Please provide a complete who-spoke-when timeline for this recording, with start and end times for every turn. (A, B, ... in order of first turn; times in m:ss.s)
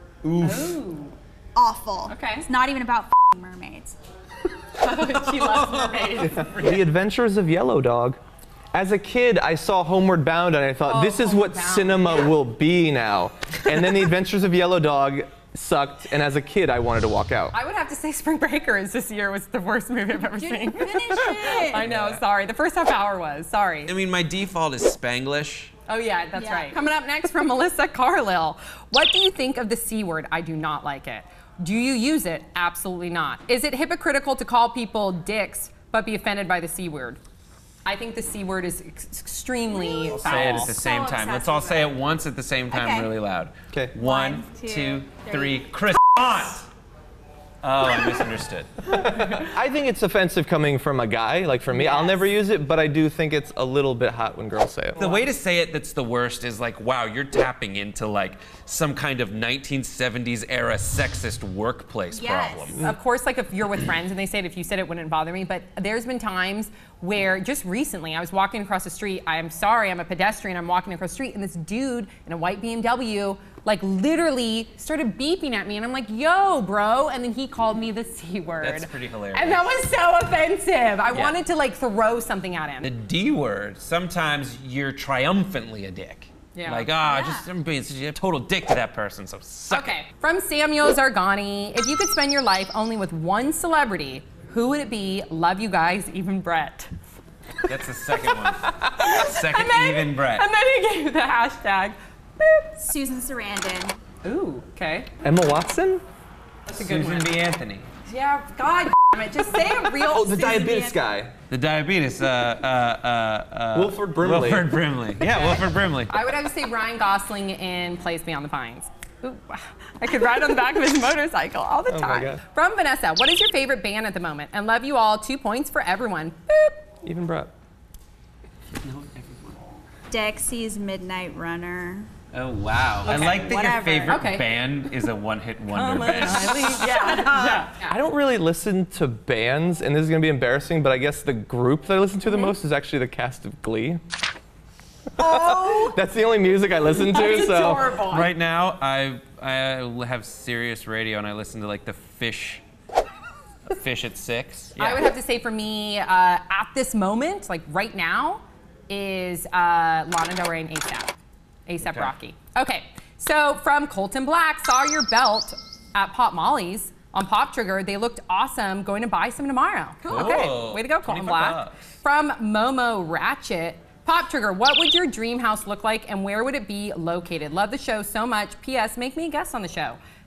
0:00.2-0:00.8 A
0:00.4-0:01.1 B
0:01.6-0:04.0 C
0:02.1-0:02.5 B
0:04.8-0:06.4 B
0:04.8-0:06.9 A
0:06.2-0:08.2 D
0:08.7-0:17.6 D
0:10.8-0:12.4 B
0:17.5-0:23.9 B
0:20.5-0:21.8 C
0:21.7-0:22.2 A
0:23.9-0:25.7 A
0:25.9-0:37.2 B
0:26.3-0:26.8 C
0:37.8-0:40.7 B
0:39.7-0:42.0 C
0:40.1-0:46.7 A
0:42.7-0:43.1 C
0:43.7-0:44.0 D
0:44.0-0:45.6 C
0:47.6-0:48.8 A
0:48.8-0:55.1 D
0:55.0-1:02.9 A
1:02.1-1:02.8 C
1:02.8-1:22.9 B
1:18.6-1:19.7 A
1:21.1-1:21.4 A
1:22.8-1:30.0 A
1:26.6-1:26.9 B
1:27.0-1:27.5 C
1:29.7-1:36.9 B
1:37.6-1:40.5 A
1:38.6-1:42.9 B
1:42.8-1:44.0 C
1:44.2-1:45.1 B
1:45.2-1:46.0 D
1:46.7-1:47.9 A
1:46.7-1:47.3 B
1:48.1-1:50.8 B
1:50.0-1:51.3 D
1:50.5-1:51.0 C
1:51.5-1:56.2 A
1:53.7-1:54.7 D
1:55.2-2:06.8 B
2:01.9-2:02.4 D
2:07.0-2:07.5 D
2:08.8-2:09.6 A
2:10.1-2:12.1 C
2:12.3-2:16.7 A
2:13.0-2:14.2 C
2:14.1-2:14.5 B
2:15.7-2:18.0 B
2:16.7-2:17.6 C
2:17.4-2:24.0 D
2:22.3-2:22.5 B
2:25.2-2:27.9 D
2:25.2-2:25.9 B
2:27.1-2:28.3 B
2:28.0-2:32.6 A
2:33.7-2:35.1 A
2:34.8-2:41.1 B
2:41.7-3:00.0 B
2:41.8-2:42.1 A
2:50.0-2:51.9 A